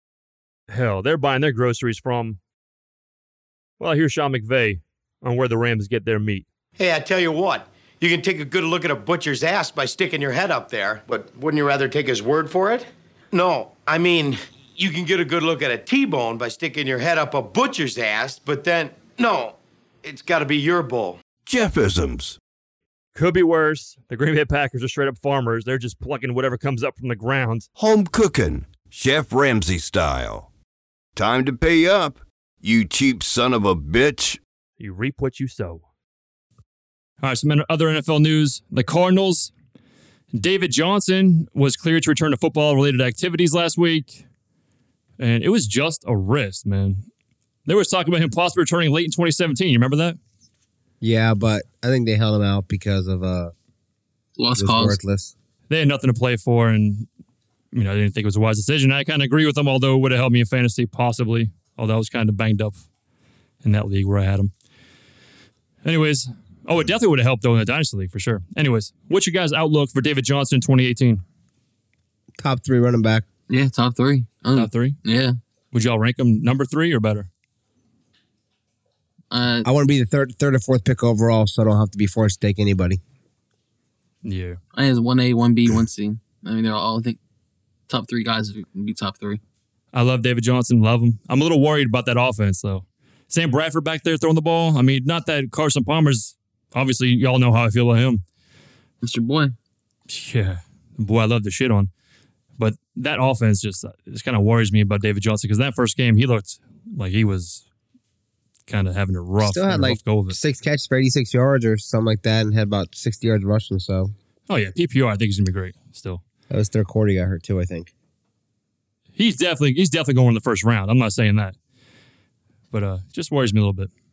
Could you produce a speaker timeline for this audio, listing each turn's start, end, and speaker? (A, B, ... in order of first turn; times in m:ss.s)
0:00.7-0:02.4 A
0:03.8-0:06.5 A
0:06.8-0:21.2 B
0:21.4-0:22.4 C
0:23.2-0:27.7 A
0:27.8-0:30.5 C
0:31.2-0:34.4 C
0:34.8-0:35.8 A
0:37.2-0:39.5 A
0:40.3-0:44.2 A
0:45.2-0:47.0 A
0:47.7-0:50.2 A
0:51.0-0:53.5 D
0:54.4-0:55.0 E
0:54.6-0:55.3 D
0:55.7-0:57.1 A
0:57.7-1:02.8 A
1:03.6-1:04.5 A
1:05.8-1:11.2 A
1:12.4-1:13.2 D
1:13.5-1:15.4 E
1:14.6-1:15.0 A
1:15.7-1:17.3 A
1:19.3-1:19.7 E
1:19.6-1:23.0 D
1:24.2-1:24.6 A
1:24.7-1:27.2 E
1:27.9-1:29.4 E
1:29.9-1:38.2 A
1:39.0-1:39.6 E
1:40.1-1:41.9 A
1:42.6-1:47.6 A
1:48.7-1:50.4 A
1:49.4-1:54.1 D
1:54.5-1:56.2 A
1:56.5-1:57.9 D
1:59.2-2:01.6 A
2:02.7-2:03.9 A